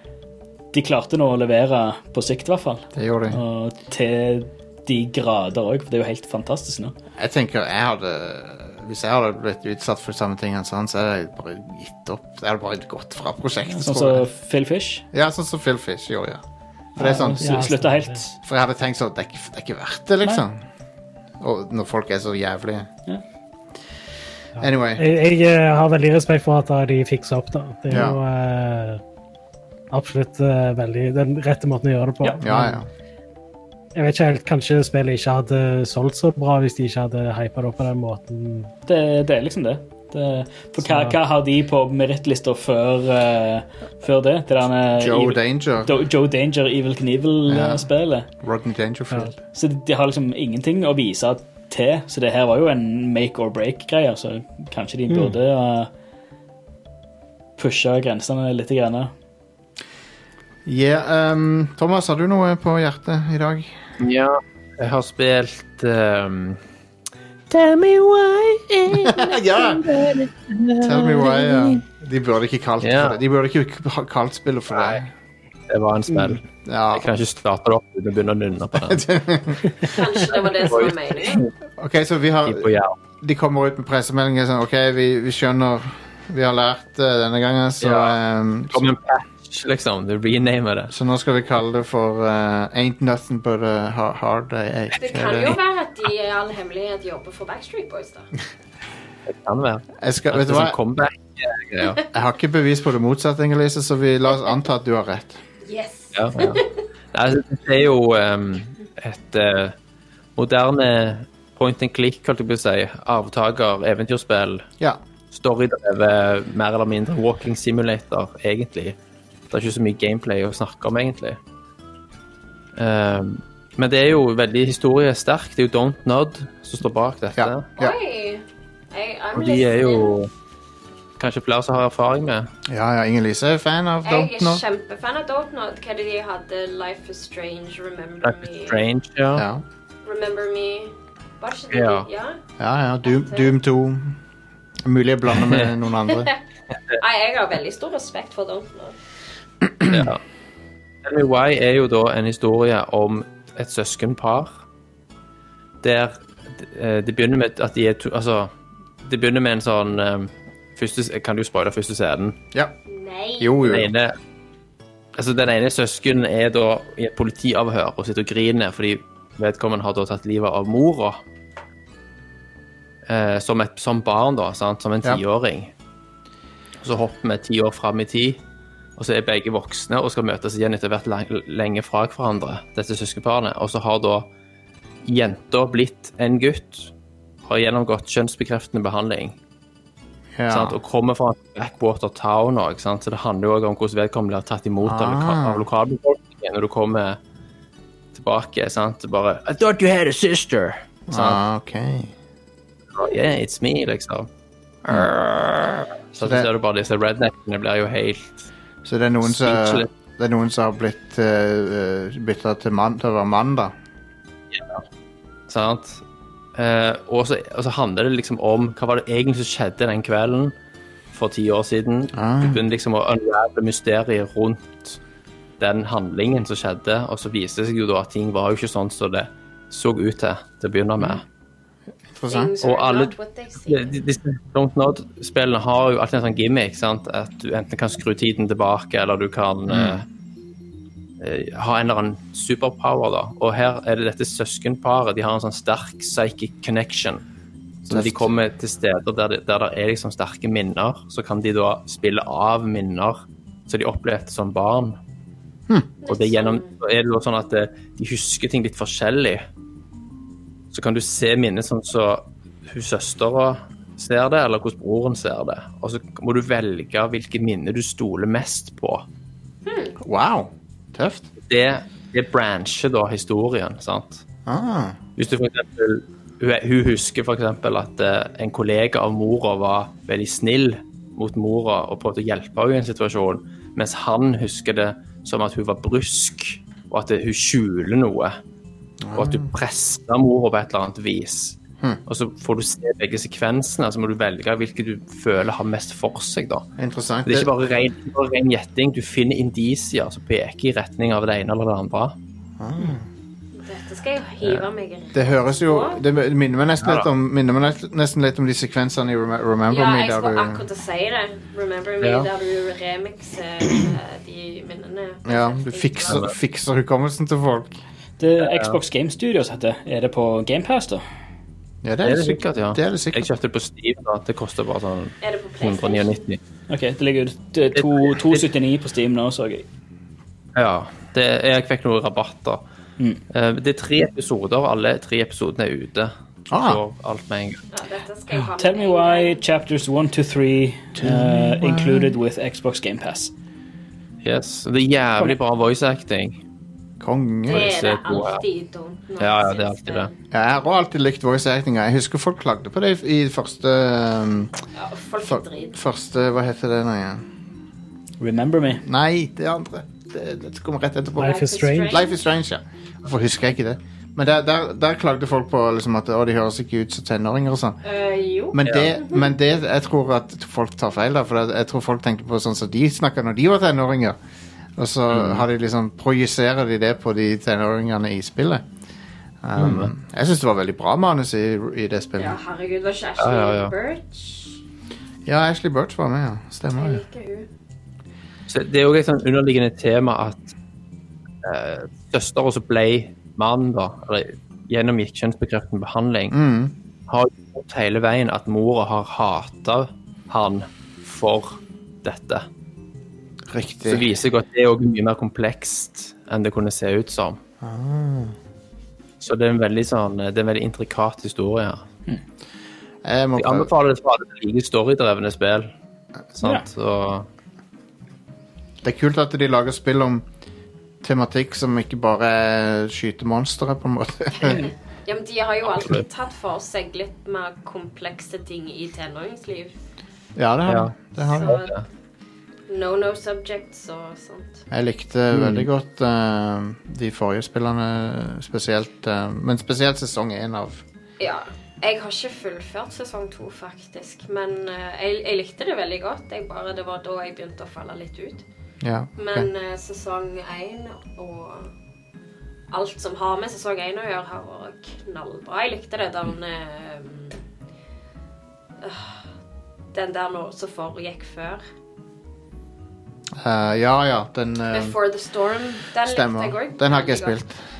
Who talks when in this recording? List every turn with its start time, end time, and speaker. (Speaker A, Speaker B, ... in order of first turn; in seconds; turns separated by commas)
Speaker A: 0.7-6.9, Speaker B: 2.9-3.4, Speaker B: 7.2-14.2, Speaker A: 13.7-15.1, Speaker B: 15.1-16.4, Speaker A: 16.9-18.4, Speaker B: 17.0-17.7, Speaker C: 17.4-18.1, Speaker B: 18.4-20.6, Speaker B: 21.4-22.9, Speaker B: 24.6-25.1, Speaker C: 24.6-29.0, Speaker B: 27.9-28.2, Speaker C: 29.9-32.8, Speaker B: 32.4-32.9, Speaker C: 33.9-38.7, Speaker A: 38.9-48.3, Speaker B: 45.0-45.9, Speaker B: 47.5-47.9, Speaker B: 48.4-49.4, Speaker A: 49.5-55.9, Speaker A: 57.6-59.1, Speaker B: 60.6-63.8, Speaker D: 64.0-66.6, Speaker D: 67.5-71.8, Speaker B: 68.9-69.9, Speaker B: 70.8-75.1, Speaker D: 72.8-73.2, Speaker D: 74.7-75.0, Speaker D: 75.7-79.0, Speaker B: 76.6-77.1, Speaker B: 78.8-79.9, Speaker E: 79.8-81.4, Speaker D: 80.6-81.5, Speaker B: 81.8-82.7, Speaker D: 82.5-82.9, Speaker B: 83.2-88.9, Speaker D: 87.8-88.2, Speaker D: 88.7-90.9, Speaker B: 90.9-95.5, Speaker E: 95.0-98.3, Speaker D: 99.3-102.0, Speaker B: 100.0-100.8, Speaker B: 102.1-105.4, Speaker E: 105.6-106.8, Speaker D: 106.1-106.6, Speaker D: 107.1-109.7, Speaker D: 110.3-114.7, Speaker D: 115.3-119.0, Speaker D: 119.5-121.4, Speaker D: 122.8-127.7, Speaker B: 127.3-127.9, Speaker E: 127.8-130.1, Speaker D: 129.3-130.3, Speaker D: 131.2-132.5, Speaker B: 132.7-134.6, Speaker E: 134.0-138.8, Speaker D: 138.2-139.5, Speaker B: 139.3-139.6, Speaker E: 140.0-142.4, Speaker D: 141.7-142.1, Speaker B: 142.6-144.2, Speaker E: 143.0-143.5, Speaker B: 144.8-146.3, Speaker E: 146.1-146.3, Speaker E: 147.0-148.9, Speaker B: 149.8-150.1, Speaker D: 149.9-150.2, Speaker D: 151.0-154.6, Speaker D: 155.8-162.4, Speaker E: 162.9-163.6, Speaker B: 163.4-163.9, Speaker D: 163.6-164.1, Speaker D: 165.2-171.2, Speaker D: 173.1-175.7, Speaker D: 176.8-178.4, Speaker D: 179.0-184.3, Speaker D: 185.0-186.9, Speaker D: 187.4-189.4, Speaker B: 190.4-190.8, Speaker D: 190.5-197.2, Speaker B: 194.8-195.6, Speaker D: 198.1-201.4, Speaker B: 201.1-202.1, Speaker D: 202.9-204.3, Speaker D: 204.8-208.5, Speaker B: 206.2-206.5, Speaker B: 208.8-213.7, Speaker D: 209.2-209.9, Speaker D: 214.5-214.8, Speaker D: 215.5-216.0, Speaker D: 216.6-220.5, Speaker D: 221.1-225.0, Speaker B: 222.1-222.6, Speaker D: 225.6-231.2, Speaker B: 232.1-232.5, Speaker E: 232.3-233.9, Speaker D: 232.6-240.1, Speaker B: 239.7-240.0, Speaker D: 241.2-247.2, Speaker D: 247.8-255.0, Speaker B: 247.9-248.4, Speaker E: 256.0-256.7, Speaker D: 256.1-259.4, Speaker D: 260.7-269.1, Speaker E: 269.6-270.0, Speaker B: 270.0-271.3, Speaker D: 271.4-274.2, Speaker B: 274.4-275.0, Speaker D: 275.2-288.4, Speaker B: 289.0-289.5, Speaker D: 289.1-296.6, Speaker B: 296.8-297.5, Speaker D: 297.2-302.1, Speaker B: 302.6-303.1, Speaker E: 303.5-306.0, Speaker B: 305.1-310.6, Speaker D: 306.8-307.1, Speaker E: 309.7-316.2, Speaker D: 312.0-312.3, Speaker B: 315.2-317.8, Speaker D: 316.1-316.3, Speaker A: 318.2-321.0, Speaker D: 318.4-318.8, Speaker B: 321.8-323.3, Speaker D: 322.0-326.4, Speaker E: 325.2-326.2, Speaker A: 326.7-329.6, Speaker D: 327.7-328.4, Speaker D: 330.5-332.6, Speaker D: 333.3-337.6, Speaker B: 336.5-336.8, Speaker E: 337.7-339.4, Speaker A: 338.6-343.3, Speaker B: 341.0-342.2, Speaker D: 344.2-346.4, Speaker B: 347.0-347.7, Speaker E: 347.4-350.1, Speaker D: 347.5-348.4, Speaker D: 349.2-350.1, Speaker B: 350.3-354.5, Speaker E: 354.7-355.8, Speaker B: 355.2-357.2, Speaker A: 358.2-358.8, Speaker B: 358.8-367.8, Speaker C: 361.2-362.0, Speaker E: 361.2-362.2, Speaker E: 367.8-369.3, Speaker B: 368.5-374.2, Speaker B: 374.8-378.6, Speaker D: 375.1-375.4, Speaker B: 379.4-382.4, Speaker D: 379.6-379.9, Speaker E: 382.2-384.4, Speaker D: 383.2-383.7, Speaker B: 385.2-387.0, Speaker E: 386.8-387.5, Speaker D: 388.5-390.5, Speaker D: 391.4-396.3, Speaker B: 396.3-396.7, Speaker D: 397.1-402.5, Speaker B: 403.5-404.1, Speaker D: 403.9-407.4, Speaker B: 407.6-408.3, Speaker D: 409.2-411.9, Speaker B: 413.0-413.7, Speaker D: 413.4-415.7, Speaker D: 416.4-417.3, Speaker B: 418.8-420.2, Speaker B: 421.0-424.7, Speaker E: 424.3-429.7, Speaker D: 425.7-426.0, Speaker B: 430.4-431.6, Speaker D: 430.6-431.8, Speaker E: 431.2-431.7, Speaker E: 432.7-434.6, Speaker B: 434.7-440.8, Speaker D: 435.3-435.7, Speaker E: 441.2-448.4, Speaker B: 448.8-449.5, Speaker E: 449.2-451.7, Speaker E: 452.7-457.3, Speaker E: 458.8-459.2, Speaker E: 459.9-461.6, Speaker B: 463.4-464.9, Speaker E: 464.7-467.4, Speaker B: 466.0-467.6